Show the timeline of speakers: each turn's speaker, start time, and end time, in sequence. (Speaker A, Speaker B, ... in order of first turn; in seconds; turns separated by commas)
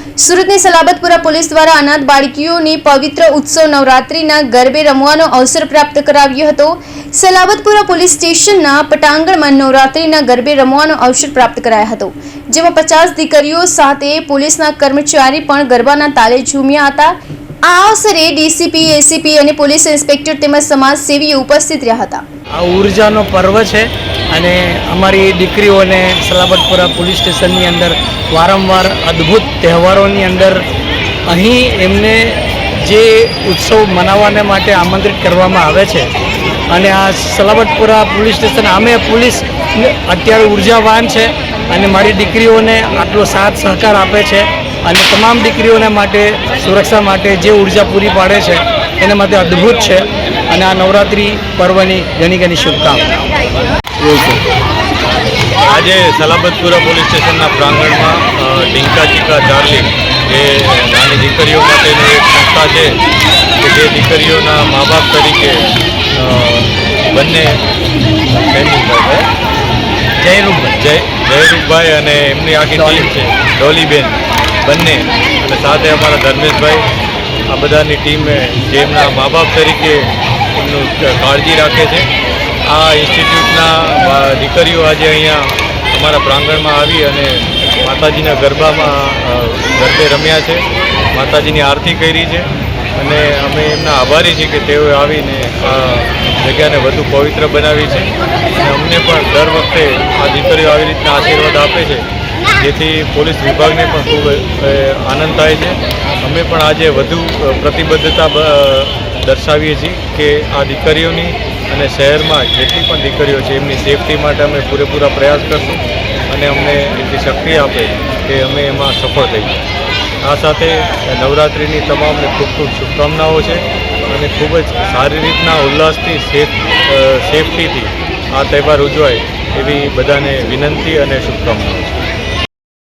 Speaker A: 0.2-22.2, Speaker B: 22.6-30.6, Speaker B: 31.3-36.1, Speaker B: 36.7-53.1, Speaker B: 54.0-54.4, Speaker C: 55.7-63.0, Speaker C: 63.6-67.6, Speaker C: 68.3-69.3, Speaker B: 70.2-70.8, Speaker C: 70.8-76.9, Speaker B: 72.7-73.1, Speaker C: 77.5-82.1, Speaker C: 82.7-119.6, Speaker C: 120.2-132.0